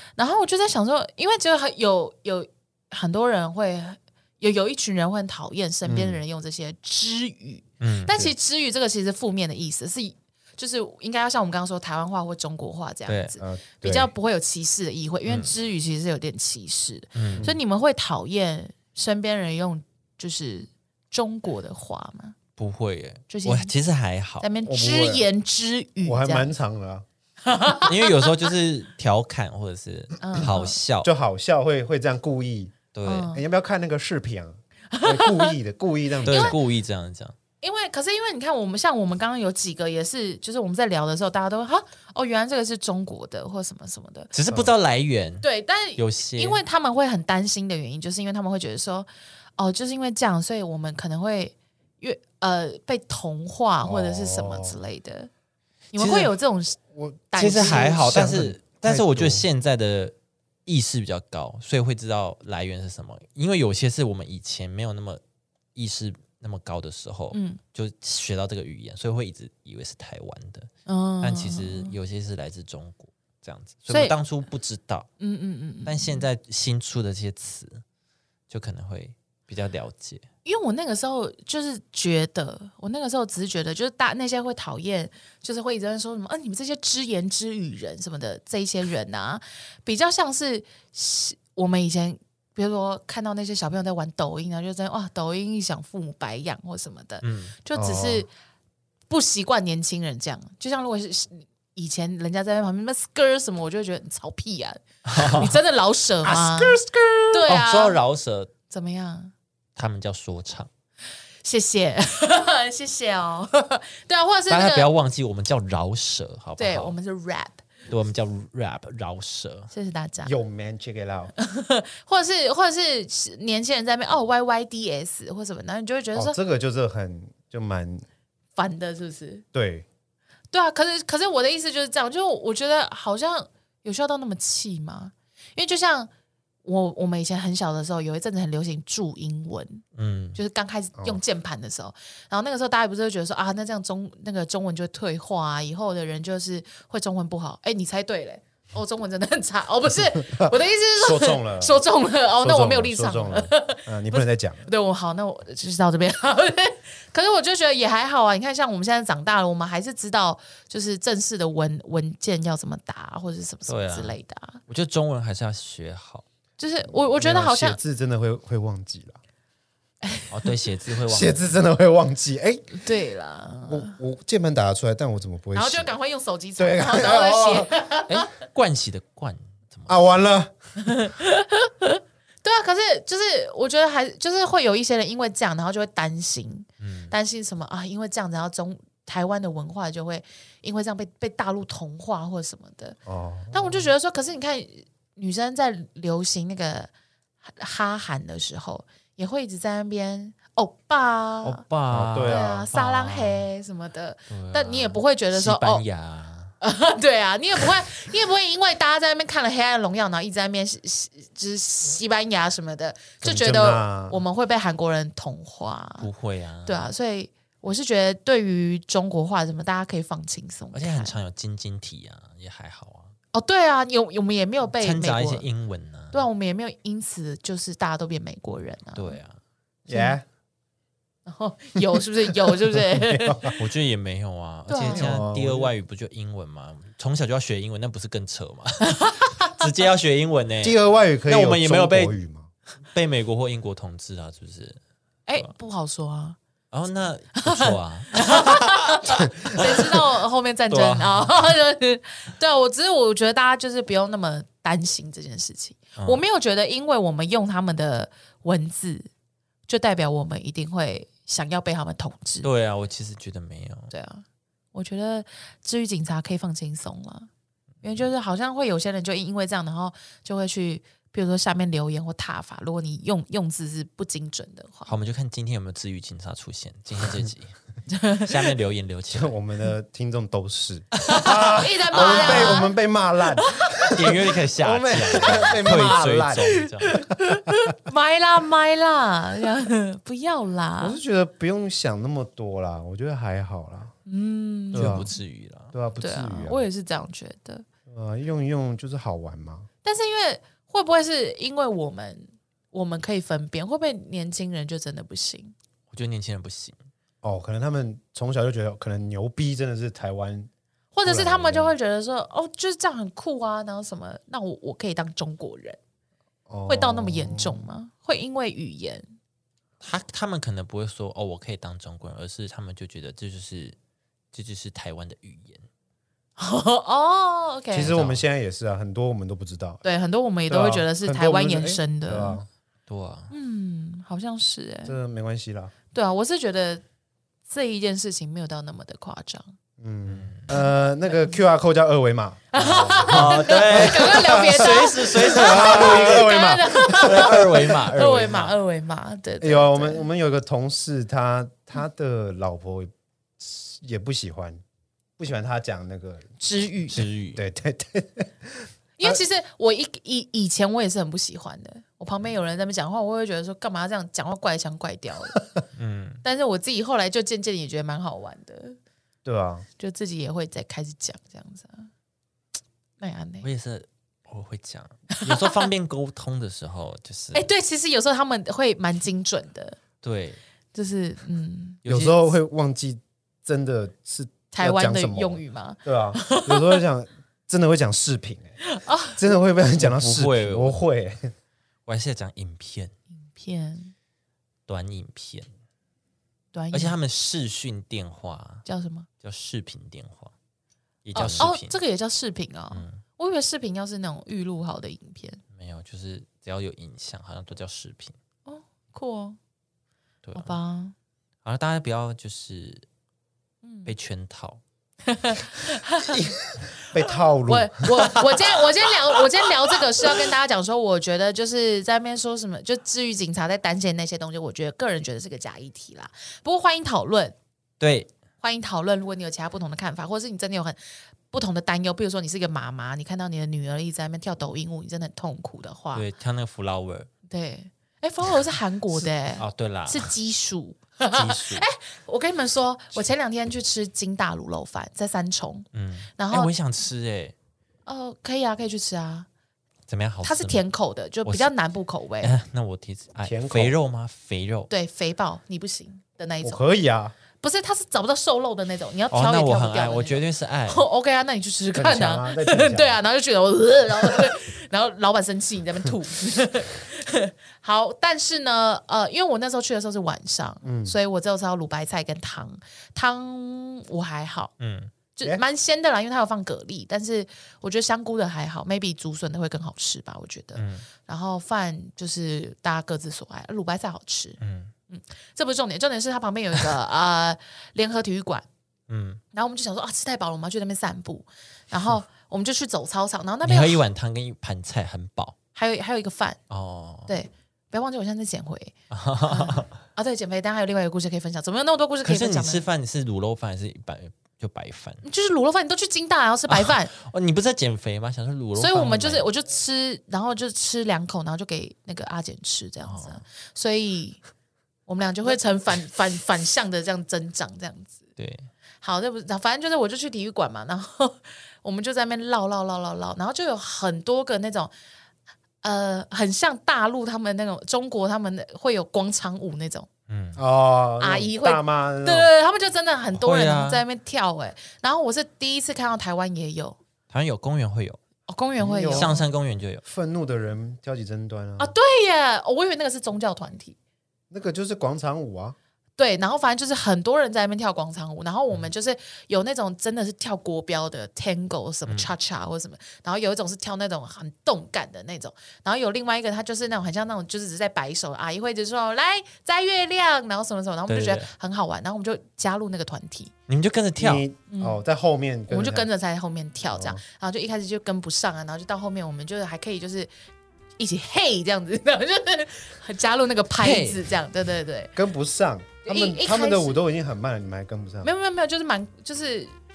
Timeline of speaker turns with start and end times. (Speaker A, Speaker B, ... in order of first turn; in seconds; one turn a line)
Speaker A: 0.2-22.4
Speaker B: 5.8-6.2
Speaker C: 7.8-8.3
Speaker C: 13.1-13.3
Speaker B: 13.4-14.1
Speaker C: 15.2-15.5
Speaker C: 17.1-17.5
Speaker C: 22.6-24.5
Speaker A: 23.3-23.7
Speaker A: 24.4-26.5
Speaker B: 24.6-25.2
Speaker B: 26.0-27.1
Speaker A: 27.4-28.5
Speaker C: 27.8-31.1
Speaker A: 30.2-30.8
Speaker B: 31.0-32.8
Speaker C: 32.9-33.3
Speaker A: 33.0-33.4
Speaker B: 33.3-36.5
Speaker A: 34.9-35.5
Speaker A: 36.2-36.6
Speaker C: 36.2-37.4
Speaker A: 37.6-44.3
Speaker C: 44.3-46.6
Speaker A: 45.4-55.3
Speaker B: 53.8-54.8
Speaker A: 55.9-56.8
Speaker C: 56.0-56.3
Speaker B: 56.9-59.5
Speaker A: 57.3-58.1
Speaker C: 57.3-60.1
Speaker C: 60.6-65.2
Speaker C: 65.7-70.7
Speaker A: 67.3-67.6
Speaker A: 70.8-71.9
Speaker C: 71.2-75.1
Speaker A: 73.9-74.2
Speaker A: 75.2-76.3
Speaker C: 75.8-77.8
Speaker C: 78.5-80.2
Speaker A: 80.4-98.3
Speaker C: 97.2-97.5
Speaker B: 97.7-98.2
Speaker A: 99.1-106.8
Speaker C: 105.0-105.5
Speaker B: 106.2-107.5
Speaker A: 107.3-108.0
Speaker C: 107.5-108.5
Speaker A: 108.7-109.3
Speaker C: 109.8-110.7
Speaker A: 111.4-114.9
Speaker C: 114.5-116.9
Speaker A: 116.6-117.6
Speaker C: 117.9-119.7
Speaker A: 119.7-120.3
Speaker B: 120.2-121.3
Speaker A: 121.4-126.4
Speaker B: 126.1-128.0
Speaker A: 128.6-129.4
Speaker B: 129.5-129.9
Speaker A: 130.5-136.1
Speaker A: 136.6-139.8
Speaker C: 140.0-140.4
Speaker A: 140.3-164.6
Speaker B: 150.2-151.8
Speaker B: 152.4-154.7
Speaker C: 163.7-164.2
Speaker C: 164.7-166.2
Speaker A: 166.6-167.8
Speaker B: 166.9-169.2
Speaker A: 170.0-170.3
Speaker C: 170.3-171.6
Speaker B: 171.1-172.8
Speaker A: 172.8-173.9
Speaker B: 173.7-175.9
Speaker A: 175.5-178.3
Speaker B: 176.6-177.7
Speaker C: 178.1-180.0
Speaker B: 179.9-180.5
Speaker A: 180.8-193.0
Speaker C: 186.8-187.1
Speaker B: 193.1-193.9
Speaker A: 193.5-196.9
Speaker A: 197.4-201.6
Speaker C: 201.4-203.4
Speaker B: 201.9-202.7
Speaker A: 202.2-205.8
Speaker C: 204.3-206.5
Speaker A: 206.6-216.1
Speaker B: 213.2-214.2
Speaker C: 216.0-216.9
Speaker A: 216.7-221.1
Speaker C: 220.7-223.1
Speaker A: 223.3-225.4
Speaker C: 224.8-226.2
Speaker A: 226.1-229.2
Speaker C: 228.9-229.4
Speaker B: 229.9-230.2
Speaker A: 229.9-230.2
Speaker A: 231.2-233.5
Speaker B: 232.3-233.6
Speaker C: 233.6-242.2
Speaker A: 234.7-235.2
Speaker B: 234.8-235.7
Speaker A: 238.8-239.5
Speaker B: 240.6-242.5
Speaker C: 242.9-244.8
Speaker A: 245.3-246.4
Speaker C: 246.7-250.0
Speaker A: 247.4-259.1
Speaker C: 250.7-251.3
Speaker C: 256.0-256.2
Speaker A: 259.7-262.5
Speaker C: 262.4-263.9
Speaker A: 263.9-267.3
Speaker A: 267.8-274.9
Speaker C: 274.9-277.5
Speaker A: 277.9-278.4
Speaker C: 278.1-279.3
Speaker B: 279.1-287.0
Speaker A: 281.1-282.7
Speaker C: 281.9-282.6
Speaker A: 283.3-284.0
Speaker C: 283.9-287.0
Speaker A: 285.1-285.5
Speaker A: 286.6-291.0
Speaker B: 290.8-293.9
Speaker A: 294.1-295.1
Speaker C: 294.7-295.7
Speaker B: 294.7-295.1
Speaker B: 295.7-296.6
Speaker A: 296.0-297.6
Speaker B: 297.9-299.7
Speaker A: 299.8-305.5
Speaker C: 305.9-306.8
Speaker B: 307.2-310.5
Speaker A: 310.9-315.8
Speaker B: 311.1-311.7
Speaker B: 316.5-317.6
Speaker A: 316.7-319.0
Speaker C: 319.8-323.8
Speaker C: 324.3-325.6
Speaker A: 326.4-327.9
Speaker B: 327.7-329.8
Speaker C: 327.8-328.2
Speaker A: 329.8-332.4
Speaker B: 330.5-332.5
Speaker C: 332.9-333.3
Speaker A: 333.3-334.9
Speaker B: 334.9-335.7
Speaker A: 335.9-336.8
Speaker A: 337.5-339.5
Speaker B: 339.8-348.5
Speaker C: 340.1-340.5
Speaker A: 340.5-341.3
Speaker A: 342.5-350.0
Speaker C: 342.6-346.3
Speaker C: 346.9-348.5
Speaker B: 349.4-354.6
Speaker B: 355.2-356.3
Speaker A: 356.4-357.0
Speaker C: 356.9-357.4
Speaker B: 357.3-359.2
Speaker A: 359.0-365.4
Speaker C: 365.8-366.2
Speaker A: 366.2-368.8
Speaker B: 369.2-369.6
Speaker A: 369.8-371.9
Speaker A: 373.0-373.5
Speaker C: 373.4-377.4
Speaker A: 375.4-375.6
Speaker A: 377.3-379.8
Speaker C: 380.0-380.4
Speaker A: 380.7-381.8
Speaker C: 381.8-382.3
Speaker B: 381.9-388.5
Speaker A: 384.5-386.8
Speaker A: 388.6-389.2
Speaker B: 389.1-391.3
Speaker C: 389.8-390.8
Speaker C: 391.9-392.9
Speaker A: 393.2-393.9
Speaker C: 394.7-395.5
Speaker A: 396.5-397.0
Speaker C: 396.7-398.6
Speaker A: 398.6-399.1
Speaker C: 399.2-400.3
Speaker C: 401.0-401.8
Speaker A: 401.1-405.4
Speaker C: 402.7-403.0
Speaker C: 405.5-408.1
Speaker A: 408.4-409.4
Speaker C: 410.2-410.5
Speaker A: 410.3-410.9
Speaker C: 411.4-412.8
Speaker A: 413.6-413.9
Speaker C: 413.8-414.6
Speaker A: 415.1-416.2
Speaker B: 416.1-418.3
Speaker A: 416.9-427.3
Speaker C: 427.8-428.1
Speaker A: 428.4-430.8
Speaker A: 431.3-436.1
Speaker C: 435.9-437.1
Speaker A: 437.3-446.5
Speaker C: 438.9-440.1
Speaker C: 441.1-441.6
Speaker C: 445.7-447.3
Speaker A: 447.9-449.3
Speaker C: 449.9-450.6
Speaker A: 450.2-452.4
Speaker C: 451.2-451.5
Speaker C: 452.2-454.7
Speaker B: 453.2-453.7
Speaker A: 454.7-456.6
Speaker B: 456.4-457.1
Speaker A: 457.4-474.5
Speaker C: 459.1-460.8
Speaker B: 461.7-463.0
Speaker B: 470.6-470.9
Speaker C: 474.6-474.9
Speaker A: 475.1-484.4
Speaker C: 480.5-480.9
Speaker C: 484.4-484.7
Speaker A: 484.9-488.4
Speaker C: 488.9-489.2
Speaker A: 489.3-493.8
Speaker C: 493.4-495.4
Speaker A: 495.5-496.4
Speaker C: 496.5-497.1
Speaker A: 497.1-498.7
Speaker C: 498.9-499.8
Speaker A: 499.3-502.6
Speaker C: 502.0-505.0
Speaker A: 505.0-506.9
Speaker C: 506.5-509.3
Speaker A: 508.5-514.2
Speaker C: 512.8-513.2
Speaker A: 514.9-518.0
Speaker C: 518.2-518.5
Speaker A: 518.8-524.7
Speaker A: 525.6-529.9
Speaker C: 530.1-530.4
Speaker B: 530.4-532.3
Speaker A: 531.0-536.8
Speaker C: 533.1-533.8
Speaker C: 537.1-538.0
Speaker A: 538.3-539.3
Speaker B: 538.6-539.1
Speaker C: 538.9-539.8
Speaker B: 539.8-541.7
Speaker A: 541.6-543.8
Speaker B: 544.3-545.5
Speaker A: 546.0-563.3
Speaker C: 551.9-552.1
Speaker C: 560.9-561.3
Speaker C: 563.5-564.2
Speaker B: 564.0-565.9
Speaker A: 564.5-564.8
Speaker A: 565.5-570.1
Speaker B: 566.7-567.0
Speaker A: 570.8-574.9
Speaker C: 573.6-574.0
Speaker B: 575.0-578.1
Speaker A: 575.8-576.8
Speaker A: 578.0-579.5